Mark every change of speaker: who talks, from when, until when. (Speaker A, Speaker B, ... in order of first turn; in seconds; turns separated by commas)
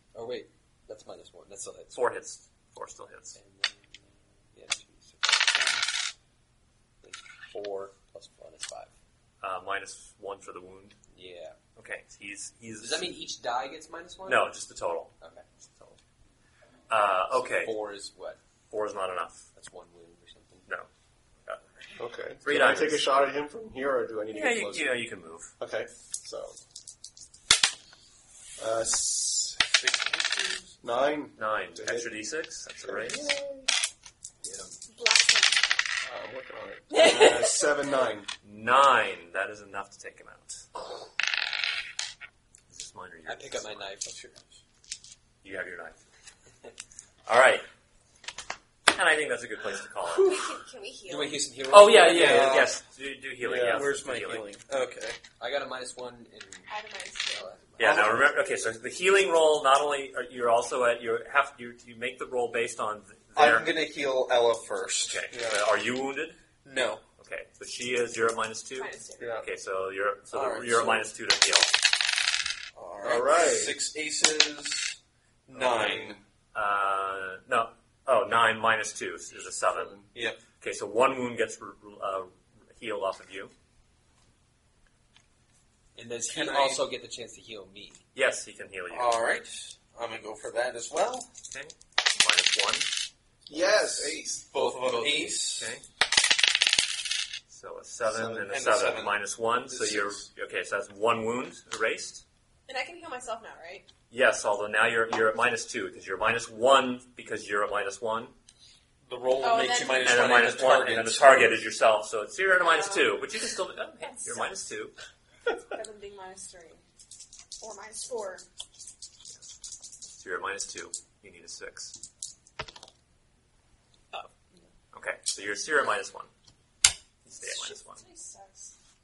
Speaker A: 0.1-2.0, Speaker B: 1.9-3.4, Speaker A: 3.3-5.9, Speaker A: 7.0-8.9, Speaker B: 9.4-11.0, Speaker A: 11.1-11.6, Speaker B: 11.8-13.1, Speaker A: 12.8-14.5, Speaker B: 14.2-15.2, Speaker B: 16.9-17.8, Speaker A: 17.3-18.4, Speaker B: 18.7-19.5, Speaker A: 19.6-20.7, Speaker C: 22.0-25.0, Speaker B: 22.4-23.1, Speaker B: 24.3-25.5, Speaker C: 25.6-26.6, Speaker C: 28.6-29.6, Speaker D: 29.6-30.7, Speaker C: 30.8-32.1, Speaker B: 31.4-33.3, Speaker C: 32.7-33.7, Speaker A: 34.4-34.8, Speaker E: 34.9-35.6, Speaker C: 36.0-38.3, Speaker E: 36.9-37.8, Speaker B: 38.4-40.7, Speaker B: 42.7-43.9, Speaker A: 43.2-44.4, Speaker D: 44.1-44.5, Speaker B: 45.4-46.0, Speaker B: 47.3-47.6, Speaker B: 48.9-50.4, Speaker E: 50.1-51.4, Speaker A: 51.1-52.6, Speaker B: 51.7-54.5, Speaker D: 52.0-52.7, Speaker C: 53.4-53.9, Speaker D: 53.5-55.2, Speaker A: 55.4-56.7, Speaker E: 56.7-57.5, Speaker A: 57.3-58.2, Speaker B: 57.8-63.7, Speaker D: 57.8-58.2, Speaker D: 63.3-65.3, Speaker B: 65.1-66.4, Speaker C: 65.3-65.7, Speaker D: 66.6-67.0, Speaker B: 67.2-71.7, Speaker E: 68.8-69.4, Speaker C: 69.2-69.5, Speaker D: 70.3-71.1, Speaker D: 72.8-76.2, Speaker C: 73.0-73.8, Speaker C: 75.5-76.2, Speaker B: 76.5-80.0, Speaker C: 79.6-80.1, Speaker D: 80.1-80.4, Speaker B: 80.6-83.5, Speaker A: 86.0-88.0, Speaker D: 86.3-86.8, Speaker B: 88.1-89.2, Speaker D: 88.9-91.3, Speaker B: 91.5-92.9, Speaker C: 93.5-94.5, Speaker D: 94.0-95.8, Speaker A: 94.5-95.4, Speaker B: 95.5-95.8, Speaker B: 97.5-102.2, Speaker C: 98.0-98.5, Speaker D: 98.5-100.2, Speaker E: 102.7-103.9, Speaker B: 104.1-108.3, Speaker D: 109.1-111.6, Speaker E: 109.4-110.2, Speaker B: 110.0-114.9, Speaker E: 112.5-113.2, Speaker E: 114.0-114.5, Speaker E: 115.7-116.8, Speaker E: 117.6-118.4, Speaker B: 120.1-122.0, Speaker E: 124.1-124.7, Speaker B: 124.9-126.3, Speaker B: 127.2-128.0, Speaker E: 127.4-128.7